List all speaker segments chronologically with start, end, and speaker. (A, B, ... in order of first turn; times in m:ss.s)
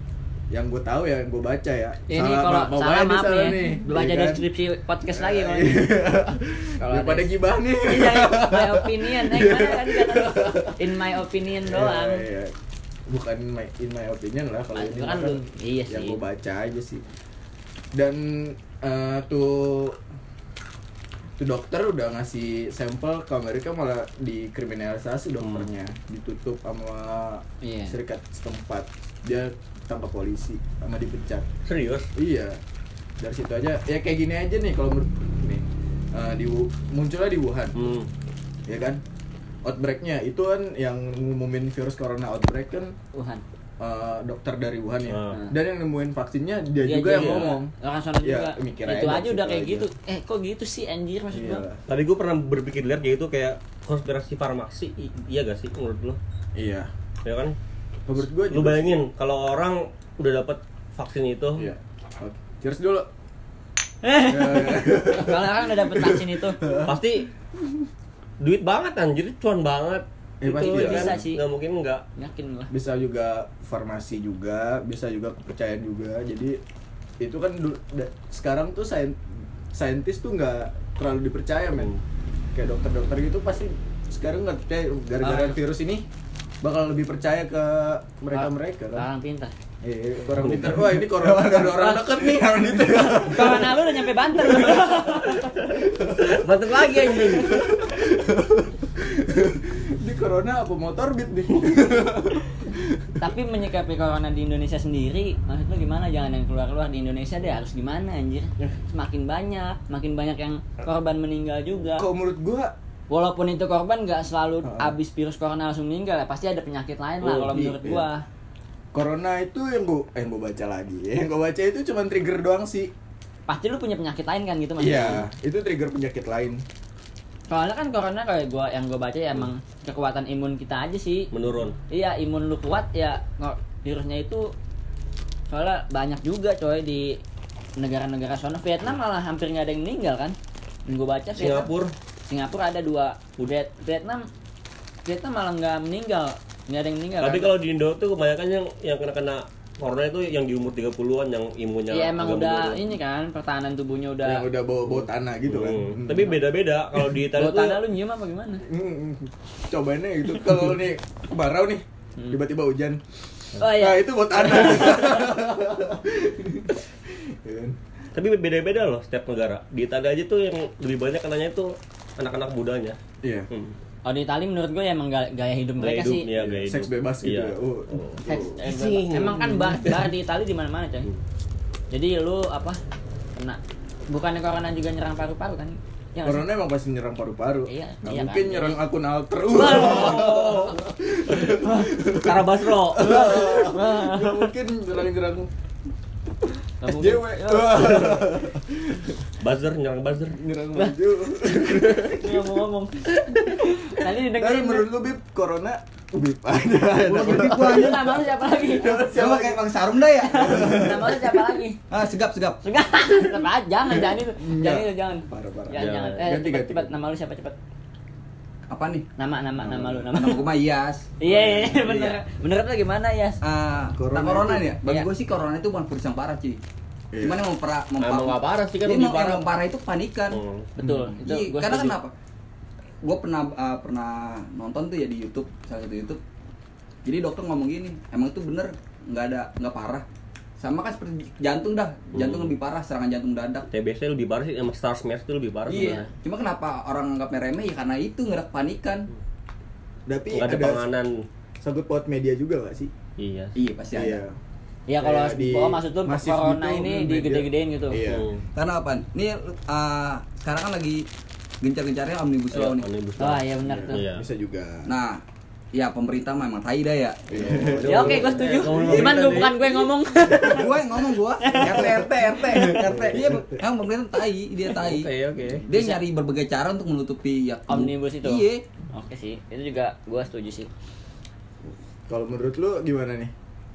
0:00.5-0:04.4 A
0:02.1-0:05.9 B
0:05.1-0:11.0 A
0:06.8-0:12.3 B
0:11.6-0:12.5 A
0:13.1-0:17.0 A
0:14.8-0:16.2 B
0:17.9-0:20.0 A
0:21.4-0:31.5 A
0:27.6-0:28.0 B
0:31.6-0:32.1 C
0:32.2-0:32.6 A
0:33.2-0:37.8 A
0:37.8-0:38.1 C
0:38.7-0:39.0 A
0:39.6-0:43.0 A
0:43.1-0:43.4 B
0:43.8-0:49.9 A
0:45.1-0:45.4 C
0:46.8-0:51.6 B
0:47.1-0:47.5 C
0:51.3-0:51.8 A
0:51.9-0:56.2 C
0:56.6-0:56.9 A
0:57.2-0:57.6 C
0:58.1-0:59.0 A
0:58.5-1:01.7 C
1:01.6-1:03.1 A
1:04.0-1:06.6 B
1:04.2-1:07.0 A
1:06.8-1:07.3 C
1:08.4-1:12.0 C
1:10.4-1:11.2 A
1:10.5-1:11.4 B
1:12.2-1:12.7 B
1:12.7-1:16.6 A
1:17.2-1:19.2 A
1:19.7-1:21.9 A
1:22.5-1:26.1 A
1:25.2-1:25.6 B
1:26.6-1:29.0 A
1:28.3-1:29.5 B
1:29.8-1:43.3 A
1:30.3-1:31.0 C
1:31.2-1:35.6 B
1:36.2-1:37.8 C
1:43.2-1:52.1 B
1:52.0-1:52.7 A
1:53.1-1:58.2 B
1:54.6-1:54.9 A
1:57.2-1:57.5 C
1:57.5-1:58.1 A
1:58.9-2:02.9 A
2:03.5-2:05.3 B
2:04.8-2:06.6 A
2:07.5-2:11.3 B
2:11.3-2:11.8 C
2:11.9-2:14.5 B
2:15.5-2:17.2 B
2:17.8-2:21.7 B
2:21.4-2:21.9 C
2:22.3-2:24.3 B
2:25.0-2:27.5 B
2:27.2-2:32.8 C
2:31.9-2:34.5 B
2:34.2-2:36.4 A
2:35.5-2:37.9 C
2:37.3-2:38.6 B
2:38.6-2:43.0 A
2:43.6-2:45.3 B
2:43.6-2:47.8 A
2:48.1-2:53.0 C
2:53.2-2:53.5 A
2:53.5-2:53.8 C
2:54.0-2:56.3 B
2:55.8-3:00.0 C
2:56.3-2:58.6 A
2:58.3-3:01.1 B
3:01.9-3:02.8 B
3:03.4-3:06.5 B
3:06.2-3:15.5 A
3:07.7-3:08.8 B
3:09.5-3:10.8 B
3:09.7-3:10.7 C
3:11.6-3:11.9 B
3:12.1-3:13.4 C
3:13.0-3:14.5 B
3:16.8-3:18.2 B
3:16.8-3:19.3 A
3:19.4-3:20.4 C
3:20.3-3:22.5 A
3:20.8-3:24.9 B
3:23.7-3:29.8 A
3:27.0-3:28.2 D
3:27.4-3:29.1 B
3:28.9-3:31.1 D
3:30.2-3:31.8 B
3:30.3-3:31.3 A
3:31.9-3:32.6 D
3:32.6-3:37.6 B
3:33.9-3:36.9 A
3:35.8-3:36.2 C
3:38.7-3:39.1 D
3:39.2-3:40.5 B
3:39.6-3:40.1 A
3:40.1-3:42.1 D
3:41.2-3:43.4 B
3:41.8-3:42.1 A
3:43.4-3:46.6 D
3:44.0-3:44.7 A
3:47.1-3:47.5 A
3:47.2-3:50.4 D
3:48.0-3:49.5 C
3:50.3-3:50.7 C
3:50.8-3:51.2 A
3:50.8-3:52.0 B
3:51.2-3:52.1 D
3:53.0-3:56.2 D
3:57.0-4:00.1 D
4:00.6-4:03.7 D
4:02.1-4:02.6 C
4:03.7-4:06.1 C
4:05.7-4:09.1 D
4:10.1-4:10.8 A
4:10.3-4:11.2 C
4:11.6-4:12.9 A
4:13.2-4:13.6 C
4:13.6-4:14.2 D
4:13.9-4:14.4 A
4:14.9-4:18.0 B
4:15.0-4:18.3 A
4:18.0-4:18.4 C
4:18.6-4:21.1 D
4:21.6-4:22.9 D
4:22.5-4:24.3 C
4:23.2-4:24.0 B
4:23.6-4:24.9 A
4:24.9-4:25.2 D
4:25.7-4:29.3 D
4:27.3-4:29.6 A
4:27.7-4:29.7 C
4:27.9-4:30.8 B
4:30.2-4:30.8 A
4:30.5-4:35.1 D
4:31.4-4:32.0 B
4:31.5-4:33.6 A
4:34.7-4:35.6 C
4:35.7-4:38.7 D
4:35.7-4:36.0 B
4:37.7-4:40.7 B
4:42.1-4:43.3 A